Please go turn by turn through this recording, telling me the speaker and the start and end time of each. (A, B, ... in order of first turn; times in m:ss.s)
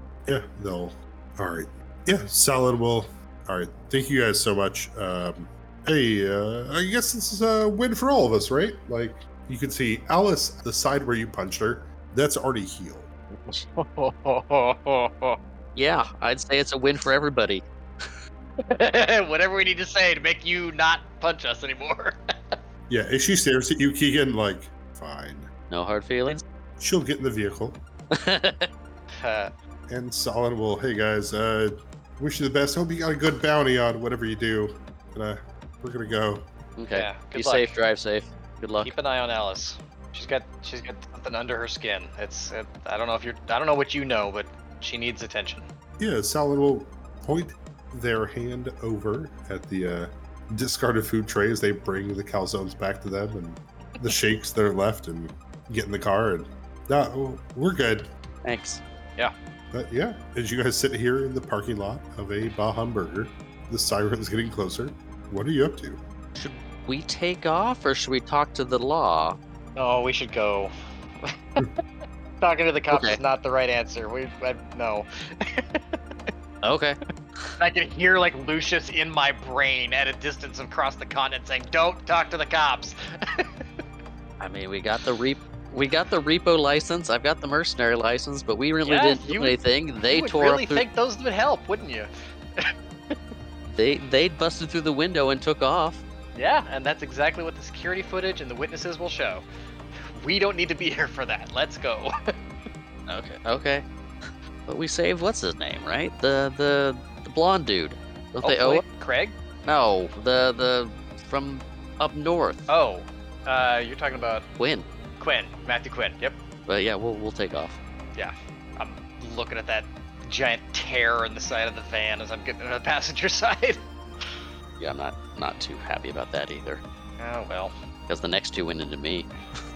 0:00.2-0:13.1 A
0:13.4-0:15.4 B
0:15.7-0:18.1 C
0:18.6-0:22.6 B
0:22.9-0:25.5 A
0:25.7-0:26.4 C
0:26.8-0:27.8 A
0:28.1-0:28.7 C
0:29.2-0:29.5 B
0:29.9-0:36.5 A
0:36.8-0:38.9 C
0:36.9-0:37.7 B
0:38.8-0:45.7 B
0:46.0-0:58.1 A
0:58.4-0:58.8 C
0:59.7-1:06.0 A
1:06.4-1:09.4 C
1:09.8-1:11.7 B
1:12.4-1:16.3 B
1:12.9-1:13.2 C
1:16.6-1:17.6 C
1:17.6-1:23.6 B
1:24.4-1:30.8 C
1:28.8-1:33.2 B
1:33.7-1:36.0 C
1:36.3-1:39.4 B
1:40.2-1:42.1 B
1:43.1-1:48.8 C
1:48.4-1:49.4 B
1:49.6-1:52.6 C
1:52.7-1:54.4 B
1:54.6-1:54.9 C
1:55.2-1:56.4 B
1:56.6-1:57.8 C
1:58.2-2:04.4 B
2:04.8-2:06.8 C
2:07.2-2:07.7 B
2:08.1-2:09.3 C